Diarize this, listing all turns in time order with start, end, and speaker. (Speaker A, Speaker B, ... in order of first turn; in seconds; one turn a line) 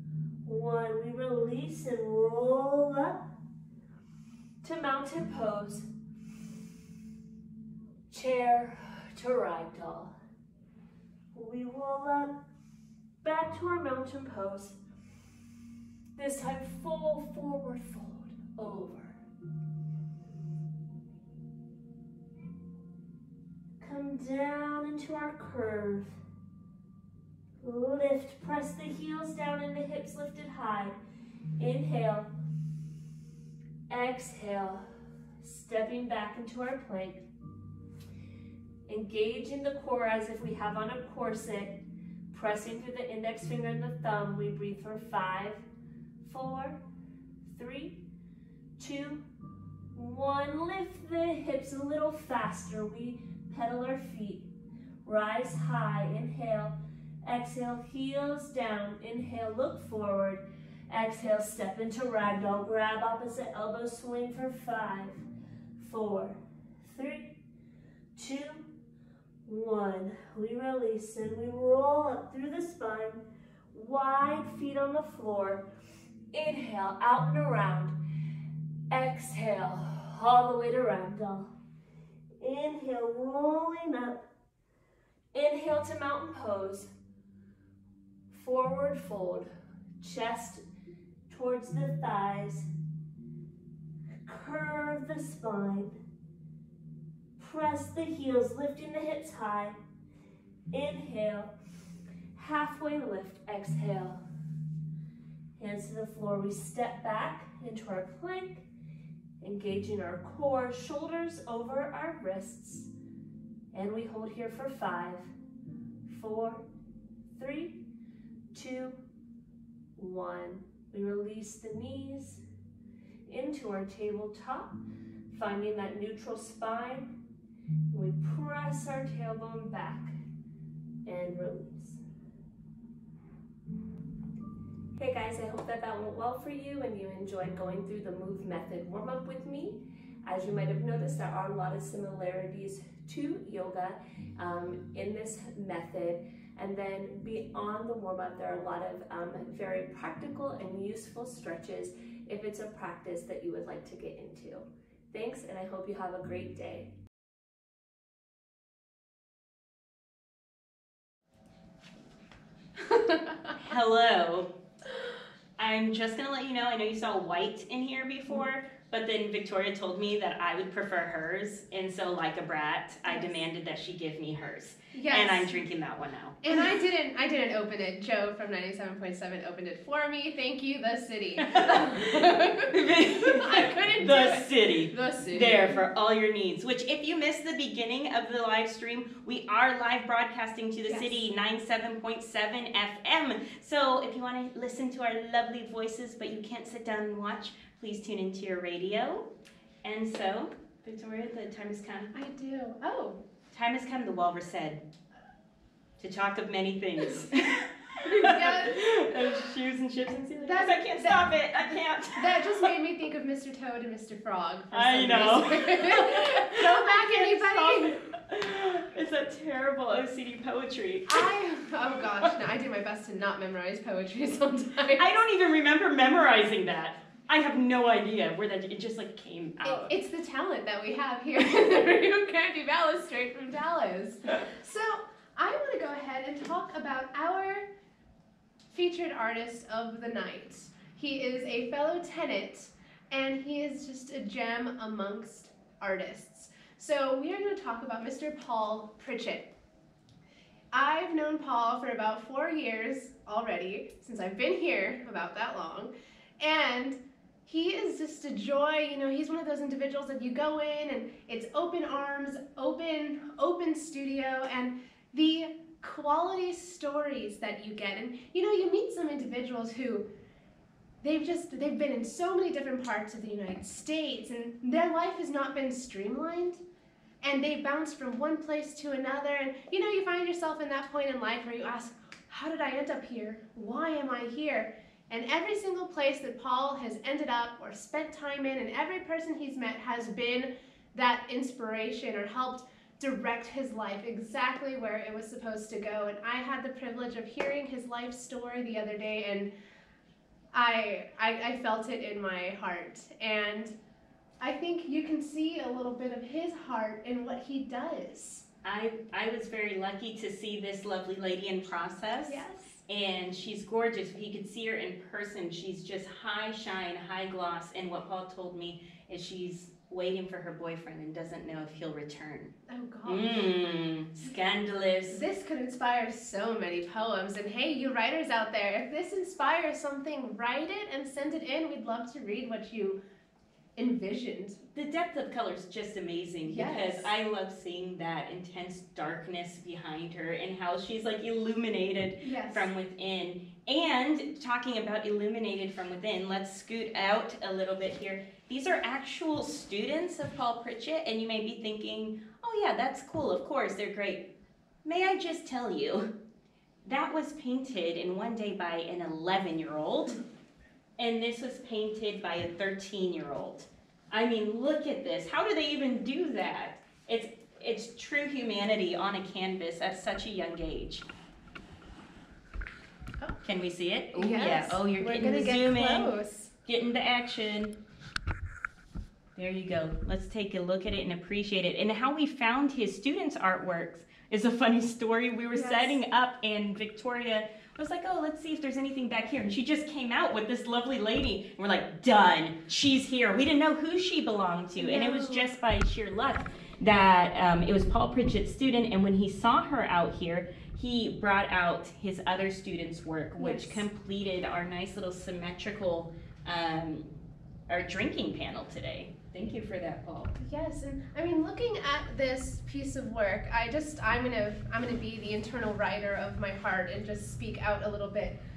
Speaker A: 0.4-3.2
Speaker A: 4.6-5.9
Speaker A: 8.1-10.1
Speaker A: 11.3-12.4
Speaker A: 13.2-14.8
Speaker A: 16.2-19.2
Speaker A: 23.8-26.2
Speaker A: 27.6-31.0
Speaker A: 31.6-32.3
Speaker A: 33.9-34.9
Speaker A: 35.4-37.2
Speaker A: 38.9-45.6
Speaker A: 46.2-46.8
Speaker A: 47.5-48.0
Speaker A: 48.8-49.2
Speaker A: 49.9-54.5
Speaker A: 55.0-65.2
Speaker A: 65.8-67.4
Speaker A: 68.2-68.7
Speaker A: 69.5-75.7
Speaker A: 76.3-78.0
Speaker A: 78.9-81.5
Speaker A: 82.4-84.2
Speaker A: 85.3-86.9
Speaker A: 88.3-89.5
Speaker A: 90.0-90.6
Speaker A: 91.3-92.7
Speaker A: 94.2-96.0
Speaker A: 97.4-99.8
Speaker A: 100.7-101.5
Speaker A: 102.3-104.2
Speaker A: 105.5-108.7
Speaker A: 109.4-112.9
Speaker A: 113.7-115.3
Speaker A: 116.1-116.6
Speaker A: 117.3-117.8
Speaker A: 118.5-119.0
Speaker A: 120.0-122.4
Speaker A: 123.3-124.8
Speaker A: 125.3-127.1
Speaker A: 127.9-130.2
Speaker A: 131.0-132.0
Speaker A: 134.9-156.9
Speaker B: 162.9-163.5
Speaker C: 163.6-164.5
Speaker C: 165.6-176.4
Speaker B: 173.1-173.4
Speaker B: 174.9-175.6
Speaker B: 176.4-185.8
Speaker C: 181.4-199.2
Speaker B: 190.9-191.2
Speaker C: 199.8-202.1
Speaker B: 202.1-203.2
Speaker C: 203.5-204.8
Speaker C: 206.0-212.7
Speaker B: 208.0-208.8
Speaker B: 210.4-218.0
Speaker C: 214.7-221.3
Speaker B: 221.1-225.1
Speaker C: 225.0-229.9
Speaker B: 229.6-237.7
Speaker B: 238.7-249.5
Speaker B: 250.7-270.1
Speaker B: 271.0-276.6
Speaker B: 277.2-299.5
Speaker B: 300.5-303.7
Speaker B: 304.4-308.4
Speaker C: 308.6-322.5
Speaker B: 312.3-312.8
Speaker B: 322.7-323.5
Speaker C: 323.1-325.2
Speaker B: 325.1-333.0
Speaker B: 333.8-334.6
Speaker C: 334.7-354.3
Speaker B: 336.4-337.1
Speaker B: 342.2-342.7
Speaker C: 354.8-356.1
Speaker C: 356.8-360.2
Speaker C: 361.0-371.0
Speaker C: 373.4-376.1
Speaker B: 374.1-376.5
Speaker C: 376.6-377.8
Speaker C: 379.4-407.1
Speaker B: 385.5-386.0
Speaker B: 394.8-395.5
Speaker B: 403.4-403.8
Speaker C: 407.7-410.3
Speaker B: 410.4-418.4